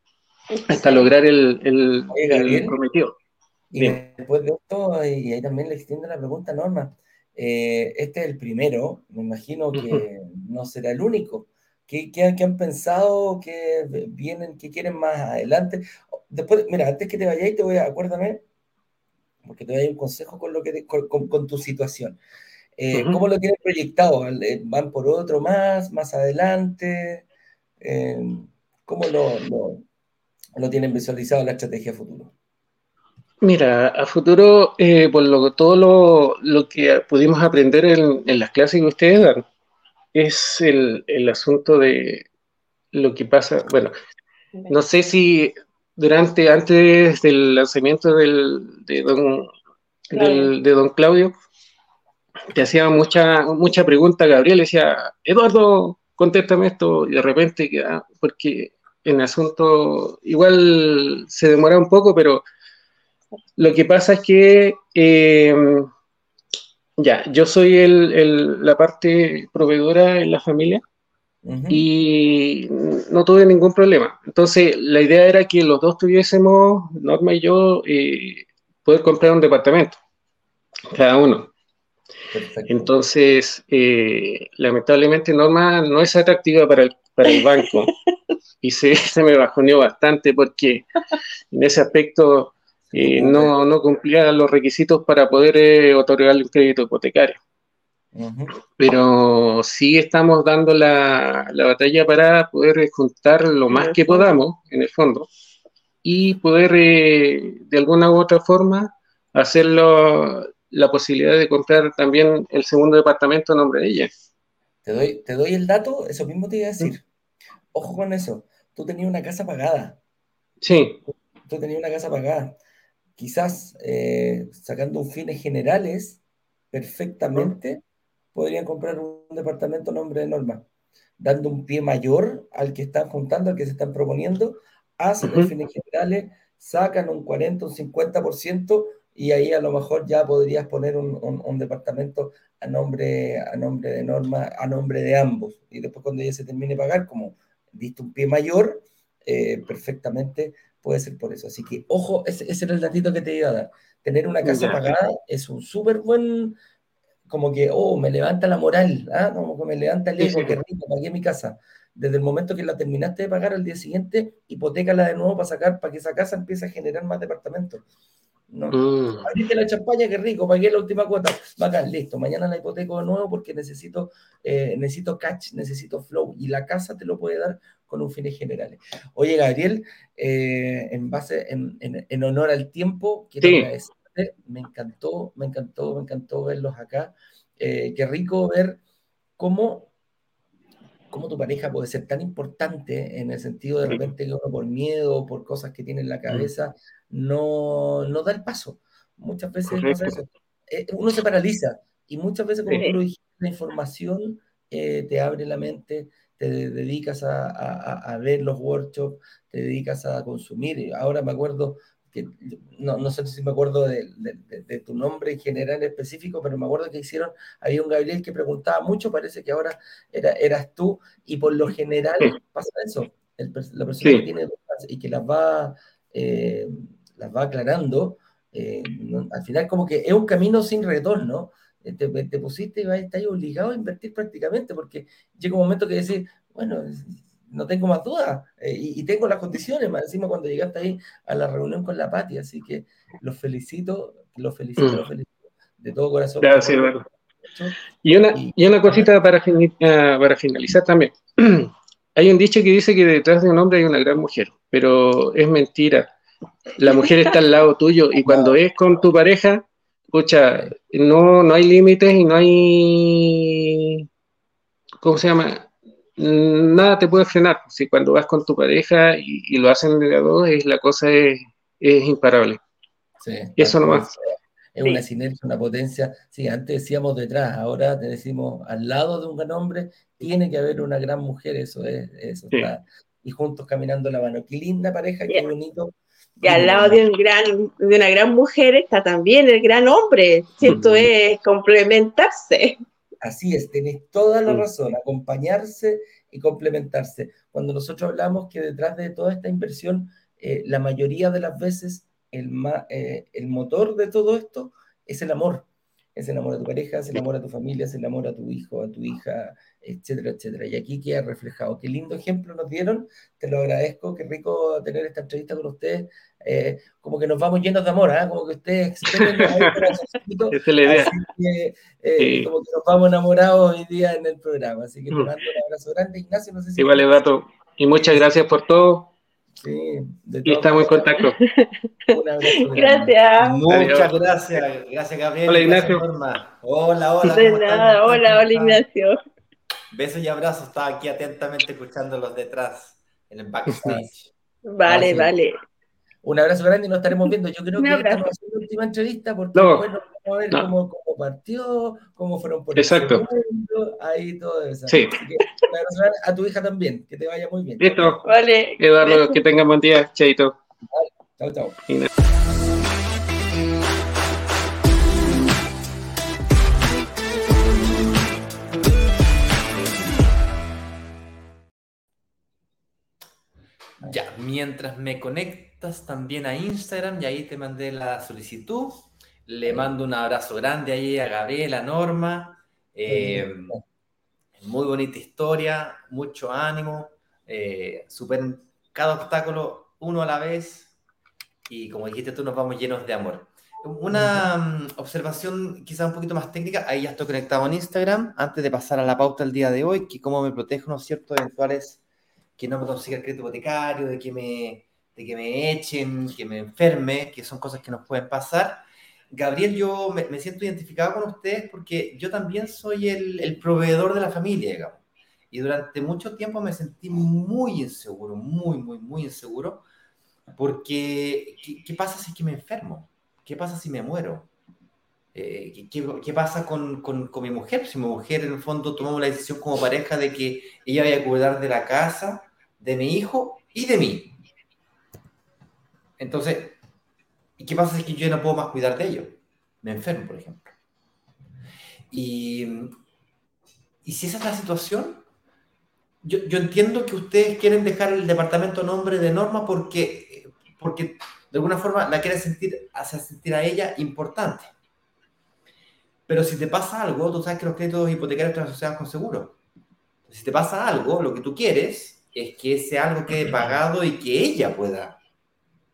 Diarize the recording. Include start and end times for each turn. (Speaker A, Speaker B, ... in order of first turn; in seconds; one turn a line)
Speaker A: 0.6-1.1
Speaker B: 0.7-3.1
Speaker C: 2.1-2.8
Speaker C: 3.7-18.4
Speaker B: 9.7-10.0
Speaker C: 19.4-22.2
Speaker C: 22.8-27.2
Speaker B: 22.9-23.2
Speaker C: 27.8-29.8
Speaker C: 30.6-32.3
Speaker B: 33.4-39.5
Speaker B: 40.1-42.2
Speaker B: 42.9-43.9
Speaker B: 44.7-49.5
Speaker B: 50.1-51.3
Speaker A: 50.1-50.5
Speaker B: 52.5-62.4
Speaker B: 63.6-65.9
Speaker B: 67.0-70.8
Speaker C: 71.4-71.8
Speaker B: 71.7-80.0
Speaker B: 80.9-81.5
Speaker C: 82.3-82.9
Speaker B: 82.7-87.9
Speaker A: 87.2-87.9
Speaker B: 88.6-90.9
Speaker B: 91.5-97.4
Speaker C: 92.9-93.5
Speaker C: 98.1-98.5
Speaker B: 98.8-105.3
Speaker A: 103.7-104.3
Speaker B: 106.0-114.1
Speaker C: 114.8-117.0
Speaker C: 117.7-120.0
Speaker B: 120.6-121.0
Speaker C: 121.1-122.6
Speaker C: 123.2-126.2
Speaker C: 126.7-127.8
Speaker C: 128.3-130.7
Speaker C: 131.2-156.6
Speaker B: 135.2-135.5
Speaker B: 154.4-154.8
Speaker C: 157.3-167.8
Speaker B: 160.2-160.6
Speaker C: 168.5-188.8
Speaker B: 168.7-169.3
Speaker B: 183.4-183.7
Speaker C: 189.4-189.9
Speaker C: 191.1-247.8
Speaker B: 199.7-200.1
Speaker B: 224.0-224.3
Speaker B: 244.8-245.1
Speaker B: 246.4-247.0
Speaker B: 248.0-256.1
Speaker C: 248.3-249.1
Speaker B: 256.8-264.0
Speaker C: 258.2-258.6
Speaker B: 265.0-272.6
Speaker C: 273.2-274.2
Speaker B: 273.6-274.1
Speaker C: 274.8-287.0
Speaker A: 286.4-292.8
Speaker C: 290.6-291.0
Speaker C: 293.2-327.2
Speaker B: 319.1-319.7
Speaker B: 320.5-321.1
Speaker B: 322.2-322.5
Speaker B: 326.8-329.1
Speaker C: 328.0-328.3
Speaker C: 329.6-331.1
Speaker B: 330.4-331.4
Speaker A: 331.0-333.6
Speaker C: 332.1-333.1
Speaker D: 333.4-338.8
Speaker B: 333.7-334.1
Speaker B: 335.5-336.0
Speaker A: 337.2-339.2
Speaker D: 339.9-344.3
Speaker B: 343.7-344.0
Speaker A: 344.6-345.5
Speaker C: 344.8-345.3
Speaker C: 346.2-358.3
Speaker A: 347.8-348.2
Speaker B: 349.5-349.9
Speaker B: 352.8-353.2
Speaker B: 354.9-355.2
Speaker B: 357.8-358.2
Speaker A: 358.2-359.4
Speaker B: 358.8-360.6
Speaker C: 360.9-361.8
Speaker D: 374.1-383.8
Speaker C: 383.1-383.8
Speaker D: 384.6-390.9
Speaker D: 391.7-402.0
Speaker C: 394.1-394.5
Speaker D: 402.6-419.8
Speaker D: 420.6-424.5
Speaker D: 425.3-434.4
Speaker D: 436.2-436.8
Speaker D: 437.6-440.7
Speaker D: 442.1-442.9
Speaker D: 444.0-445.2
Speaker D: 446.2-454.7
Speaker D: 456.3-459.6
Speaker D: 460.3-465.2